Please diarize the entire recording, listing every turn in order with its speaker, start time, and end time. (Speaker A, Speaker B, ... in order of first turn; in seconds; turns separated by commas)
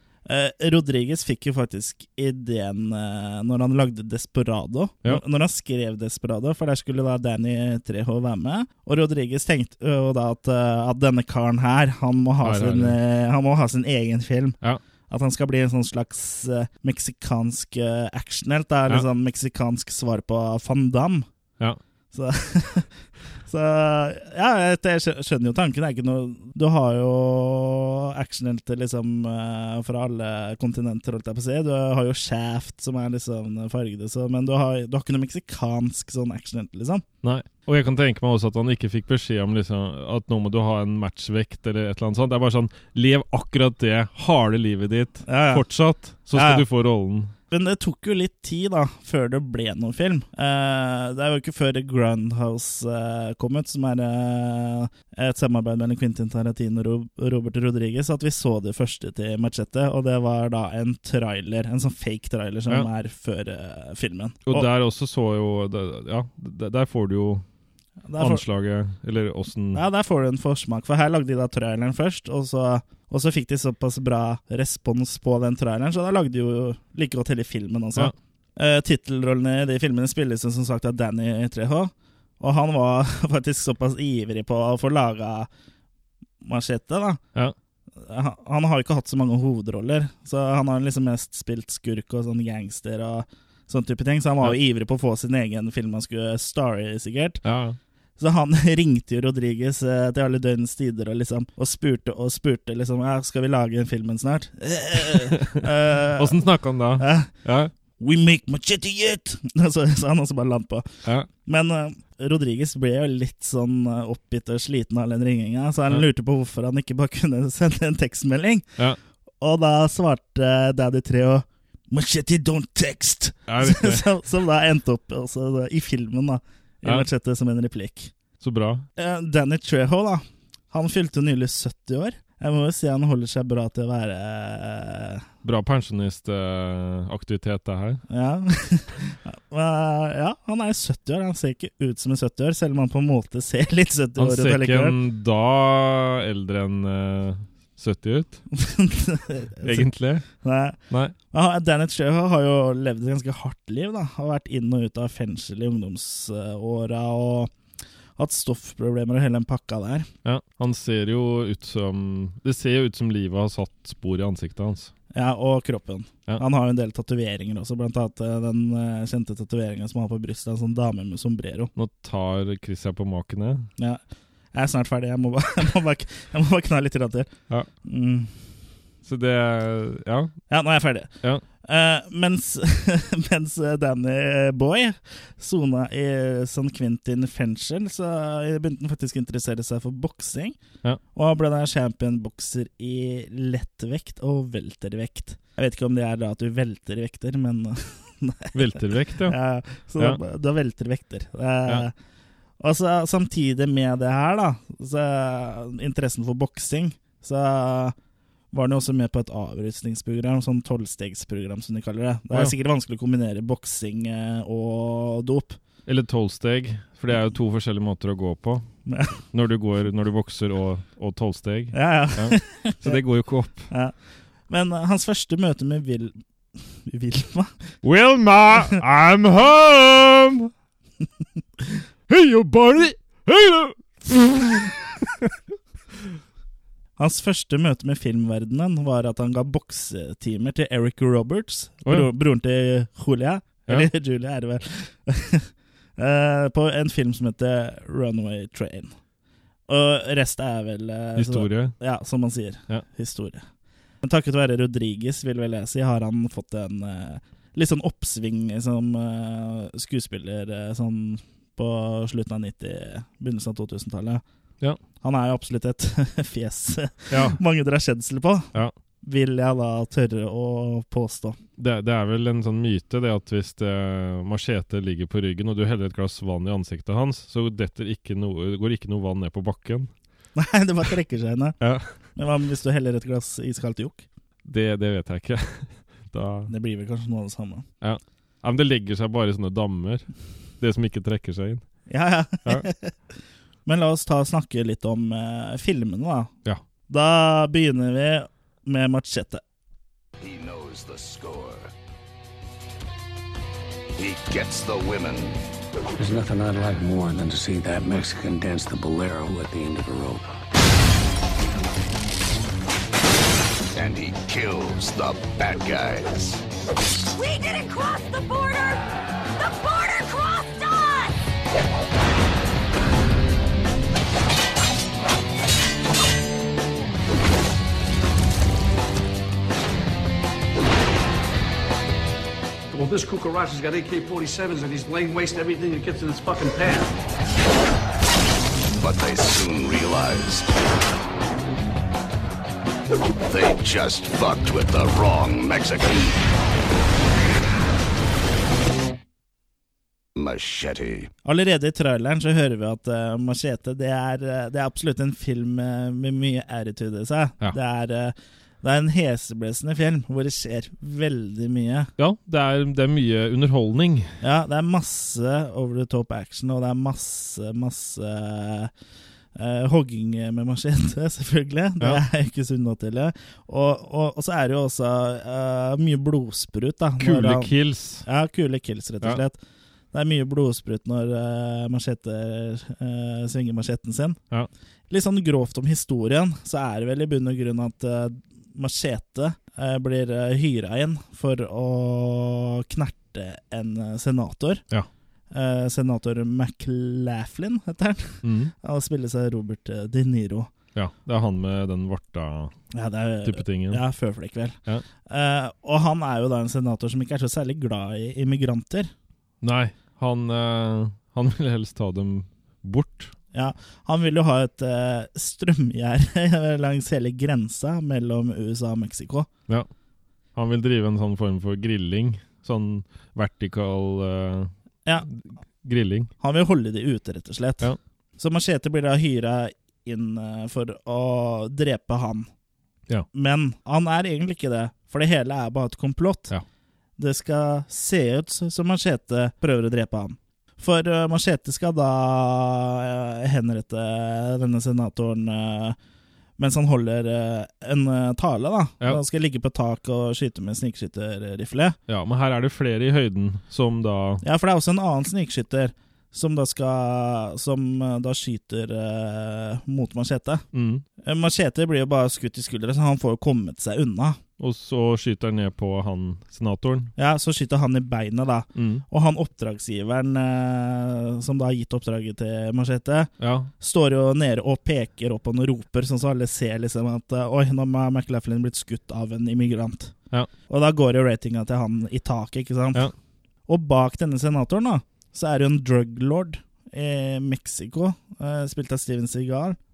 Speaker A: 0.3-14.6, Speaker B: 12.4-13.0, Speaker A: 15.1-21.3, Speaker A: 22.1-22.9, Speaker A: 23.5-37.0, Speaker B: 37.2-47.3, Speaker A: 45.3-45.6, Speaker A: 46.3-46.6, Speaker A: 47.5-64.7, Speaker B: 64.5-67.5, Speaker A: 68.1-68.4, Speaker B: 68.2-69.8, Speaker A: 69.7-85.5, Speaker A: 86.4-87.2, Speaker A: 88.0-97.4, Speaker B: 97.4-97.8, Speaker A: 98.2-106.4, Speaker B: 105.0-107.7, Speaker A: 107.0-107.3, Speaker A: 108.0-118.8, Speaker A: 119.4-128.1, Speaker B: 123.5-124.1, Speaker B: 128.4-128.9, Speaker A: 129.0-135.2, Speaker B: 135.4-138.0, Speaker A: 138.1-145.0, Speaker B: 144.2-148.4, Speaker A: 148.5-150.8, Speaker B: 149.6-150.3, Speaker B: 150.9-151.2, Speaker A: 151.3-157.5, Speaker A: 158.2-160.1, Speaker B: 160.2-164.9, Speaker A: 165.1-171.7, Speaker B: 171.8-173.7, Speaker A: 174.5-177.3, Speaker A: 177.8-178.3, Speaker B: 179.0-180.4, Speaker A: 180.5-181.1, Speaker A: 181.6-190.6, Speaker A: 191.1-201.9, Speaker B: 198.5-199.4, Speaker A: 202.6-207.9, Speaker A: 208.5-215.6, Speaker B: 215.9-218.7, Speaker A: 218.9-219.2, Speaker B: 219.3-223.7, Speaker A: 221.7-223.0, Speaker A: 223.7-223.9, Speaker A: 224.5-226.2, Speaker A: 226.9-227.5, Speaker B: 227.8-230.5, Speaker B: 232.1-235.3, Speaker A: 237.0-248.9, Speaker A: 249.7-253.4, Speaker B: 251.2-251.8, Speaker A: 254.0-264.2, Speaker A: 265.0-268.5, Speaker B: 267.1-267.4, Speaker A: 269.0-271.4, Speaker B: 271.6-279.9, Speaker A: 280.4-281.6, Speaker B: 281.6-281.9, Speaker A: 282.2-284.1, Speaker B: 284.4-286.5, Speaker A: 286.5-287.6, Speaker B: 287.8-290.1, Speaker B: 290.6-291.6, Speaker A: 291.9-292.9, Speaker A: 293.7-296.3, Speaker A: 296.9-299.4, Speaker C: 300.2-301.7, Speaker C: 304.0-305.4, Speaker D: 306.0-310.3, Speaker C: 313.8-316.4, Speaker E: 317.1-321.2, Speaker F: 332.7-336.9, Speaker C: 338.8-340.5, Speaker C: 343.3-346.2, Speaker C: 350.1-351.1, Speaker A: 351.2-361.9, Speaker B: 362.0-364.1, Speaker A: 364.2-368.7, Speaker A: 369.4-377.5, Speaker B: 377.0-378.1, Speaker A: 378.1-379.4, Speaker A: 379.9-384.2, Speaker A: 384.9-394.6, Speaker A: 395.3-400.5, Speaker B: 398.2-398.5, Speaker B: 400.8-402.6, Speaker A: 402.7-408.9, Speaker B: 403.2-403.8, Speaker B: 409.4-413.1, Speaker A: 413.3-419.3, Speaker B: 420.4-424.5, Speaker B: 425.1-426.1, Speaker A: 426.2-432.3, Speaker A: 433.1-436.3, Speaker A: 437.0-445.8, Speaker A: 446.4-451.8, Speaker B: 451.9-454.2, Speaker A: 454.2-460.4, Speaker B: 460.5-460.9, Speaker A: 461.0-464.2, Speaker B: 464.4-466.9, Speaker A: 467.0-479.9, Speaker B: 468.6-468.8, Speaker B: 473.2-473.5, Speaker A: 480.5-482.9, Speaker A: 483.5-489.6